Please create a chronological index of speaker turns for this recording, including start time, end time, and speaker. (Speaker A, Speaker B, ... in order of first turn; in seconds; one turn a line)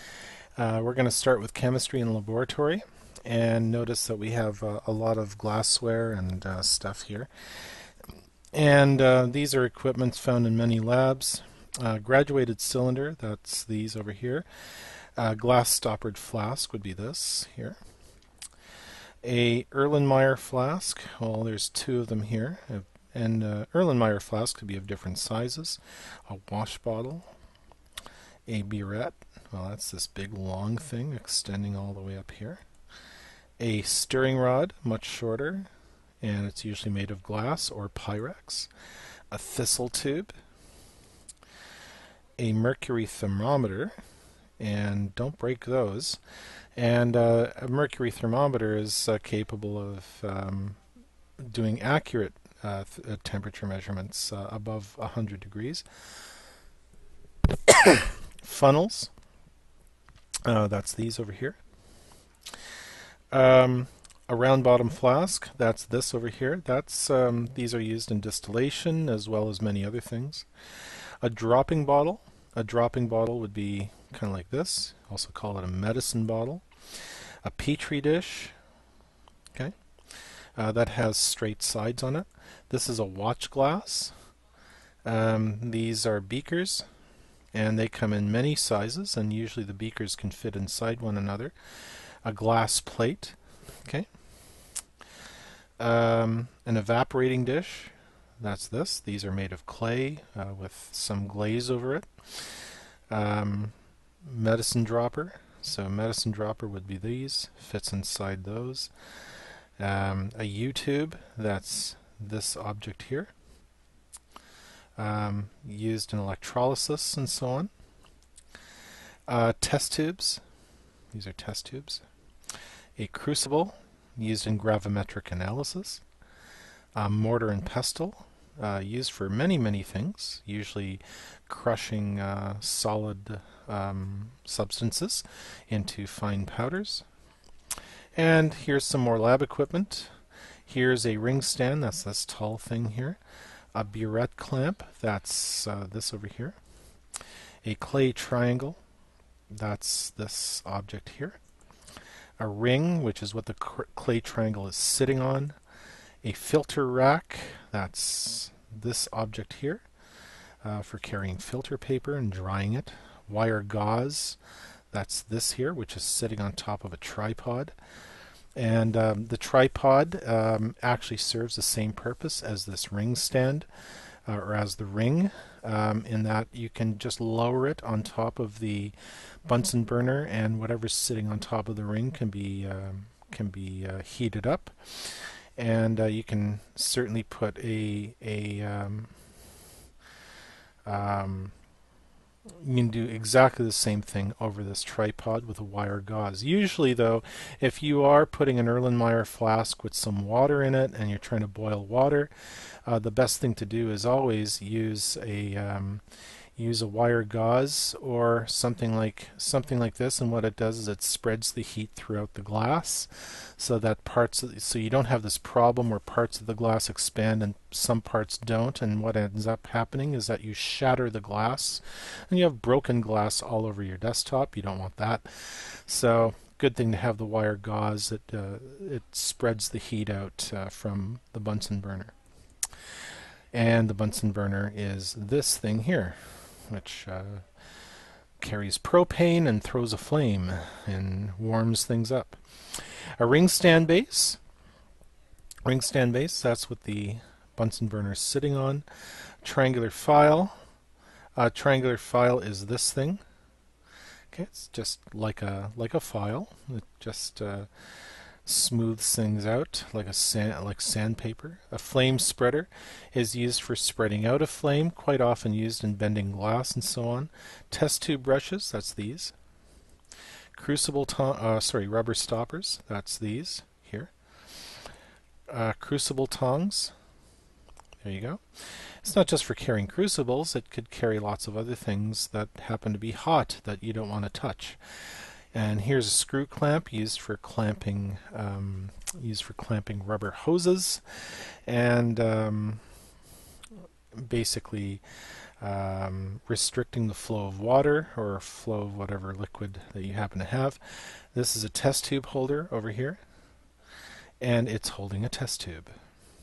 Speaker A: 0.6-7.8
Speaker A: 8.5-17.8
Speaker A: 19.2-27.3
Speaker A: 28.5-32.6
Speaker A: 33.6-35.7
Speaker A: 36.2-38.7
Speaker A: 39.3-40.3
Speaker A: 42.4-44.0
Speaker A: 44.6-46.2
Speaker A: 46.8-50.8
Speaker A: 51.4-55.9
Speaker A: 57.7-59.1
Speaker A: 60.5-61.6
Speaker A: 63.3-70.5
Speaker A: 71.2-78.6
Speaker A: 80.5-84.1
Speaker A: 85.0-86.9
Speaker A: 87.5-91.5
Speaker A: 92.2-94.1
Speaker A: 95.8-108.9
Speaker A: 109.8-113.3
Speaker A: 115.0-117.7
Speaker A: 119.3-120.4
Speaker A: 121.1-122.0
Speaker A: 123.0-126.0
Speaker A: 127.0-137.1
Speaker A: 138.2-140.2
Speaker A: 140.7-143.2
Speaker A: 143.7-146.6
Speaker A: 147.6-148.8
Speaker A: 149.5-151.4
Speaker A: 152.4-155.6
Speaker A: 156.2-159.8
Speaker A: 160.6-164.4
Speaker A: 164.9-167.8
Speaker A: 168.6-189.1
Speaker A: 190.8-191.5
Speaker A: 192.6-206.0
Speaker A: 206.6-232.1
Speaker A: 233.5-237.5
Speaker A: 238.4-244.4
Speaker A: 245.7-250.6
Speaker A: 251.4-253.2
Speaker A: 254.3-257.7
Speaker A: 258.4-269.4
Speaker A: 270.5-274.1
Speaker A: 275.5-276.9
Speaker A: 278.0-292.8
Speaker A: 294.1-295.0
Speaker A: 295.6-303.2
Speaker A: 304.4-306.0